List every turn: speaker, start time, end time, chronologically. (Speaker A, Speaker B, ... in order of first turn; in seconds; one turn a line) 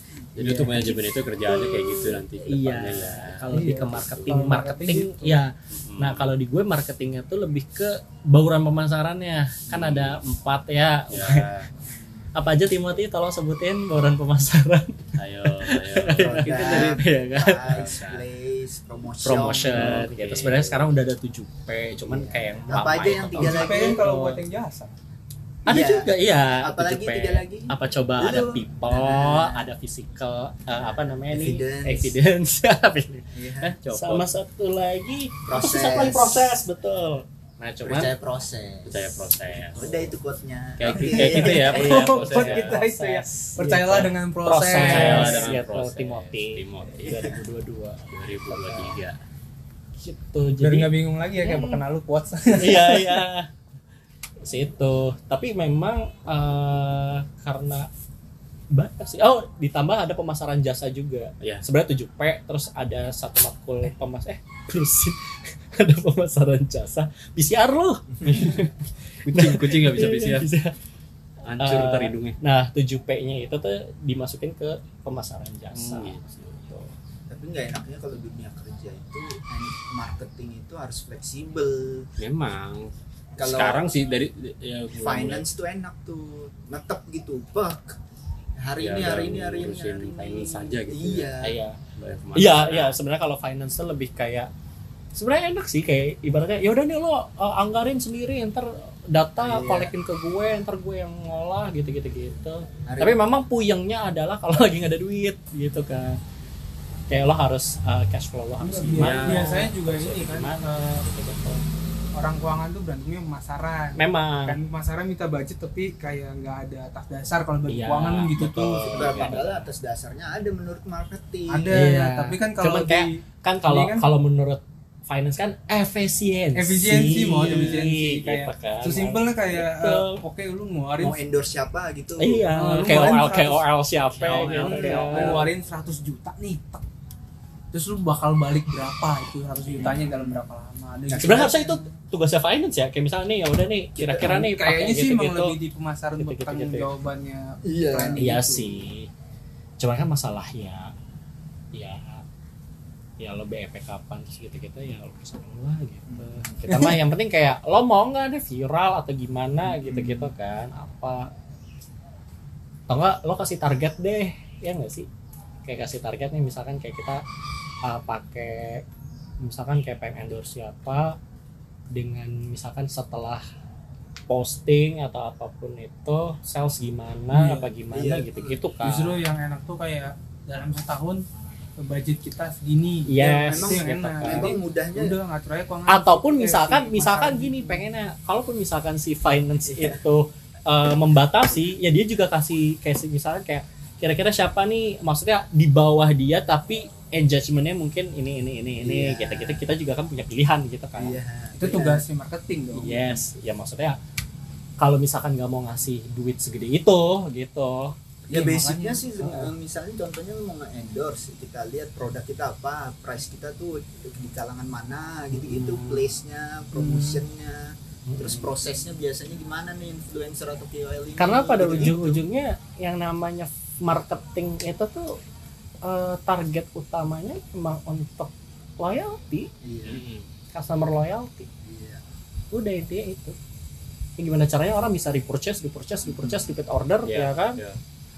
Speaker A: 0.3-4.3
Speaker B: 0.4-11.5
Speaker C: 3.5-5.4
Speaker A: 5.7-6.3
Speaker A: 9.7-10.2
Speaker A: 11.1-11.7
Speaker D: 11.8-12.3
Speaker B: 12.3-18.0
Speaker A: 15.2-17.0
Speaker D: 16.1-20.1
Speaker A: 17.7-18.2
Speaker B: 19.2-24.4
Speaker A: 19.7-20.8
Speaker D: 22.1-24.1
Speaker C: 23.4-24.9
Speaker D: 25.6-29.7
Speaker B: 25.6-38.1
Speaker D: 30.7-32.1
Speaker D: 33.3-33.7
Speaker A: 33.8-34.3
Speaker D: 35.5-36.6
Speaker D: 37.8-42.0
Speaker A: 38.9-40.1
Speaker A: 40.8-42.8
Speaker B: 40.9-49.0
Speaker C: 41.2-45.6
Speaker A: 44.7-47.4
Speaker A: 48.1-49.1
Speaker B: 50.0-51.8
Speaker C: 50.6-53.3
Speaker B: 52.5-53.5
Speaker B: 54.4-57.9
Speaker B: 58.7-65.2
Speaker B: 65.7-70.7
Speaker A: 68.2-68.6
Speaker A: 69.2-70.5
Speaker A: 71.4-72.4
Speaker B: 71.6-76.9
Speaker A: 75.7-76.7
Speaker D: 77.3-82.1
Speaker A: 82.2-85.5
Speaker D: 83.4-83.9
Speaker D: 84.9-88.0
Speaker D: 88.6-91.5
Speaker A: 88.8-91.4
Speaker B: 91.4-91.8
Speaker A: 91.9-93.0
Speaker B: 92.3-94.5
Speaker B: 95.1-106.2
Speaker D: 99.4-99.9
Speaker D: 102.8-103.2
Speaker B: 107.1-111.6
Speaker C: 108.6-111.0
Speaker A: 109.0-109.7
Speaker C: 112.1-119.0
Speaker B: 114.0-114.6
Speaker B: 117.7-119.7
Speaker A: 118.4-119.5
Speaker D: 118.9-121.8
Speaker C: 121.5-124.0
Speaker B: 121.7-130.2
Speaker C: 126.5-131.2
Speaker D: 131.0-132.5
Speaker B: 132.2-135.5
Speaker C: 132.5-133.7
Speaker A: 134.2-135.5
Speaker C: 134.2-136.8
Speaker C: 137.7-141.8
Speaker D: 139.8-140.3
Speaker D: 141.1-141.6
Speaker B: 141.2-145.6
Speaker D: 144.0-144.3
Speaker C: 144.1-148.9
Speaker B: 146.2-146.9
Speaker D: 147.6-148.3
Speaker B: 148.2-149.1
Speaker B: 149.8-150.9
Speaker B: 151.7-152.2
Speaker B: 153.2-161.3
Speaker D: 156.1-156.6
Speaker C: 156.7-157.0
Speaker D: 159.7-160.3
Speaker B: 162.9-165.1
Speaker B: 165.7-167.2
Speaker B: 167.8-168.8
Speaker B: 169.4-171.2
Speaker B: 171.9-173.4
Speaker B: 174.3-179.2
Speaker C: 177.3-177.7
Speaker D: 177.9-178.6
Speaker C: 178.8-181.2
Speaker C: 181.8-187.8
Speaker B: 183.1-184.6
Speaker D: 183.4-185.2
Speaker B: 185.9-201.2
Speaker D: 189.7-190.0
Speaker D: 198.8-199.7
Speaker D: 200.9-202.0
Speaker C: 201.6-203.2
Speaker B: 202.7-204.0
Speaker B: 204.8-207.9
Speaker D: 208.3-222.2
Speaker C: 208.3-209.5
Speaker B: 215.4-216.0
Speaker C: 216.7-217.2
Speaker B: 218.1-218.5
Speaker B: 221.2-225.2
Speaker B: 225.8-229.5
Speaker D: 229.6-230.0
Speaker A: 229.8-230.2
Speaker B: 230.5-231.5
Speaker D: 231.6-232.0
Speaker B: 232.5-233.3
Speaker B: 234.2-237.6
Speaker D: 236.1-236.5
Speaker A: 237.0-237.8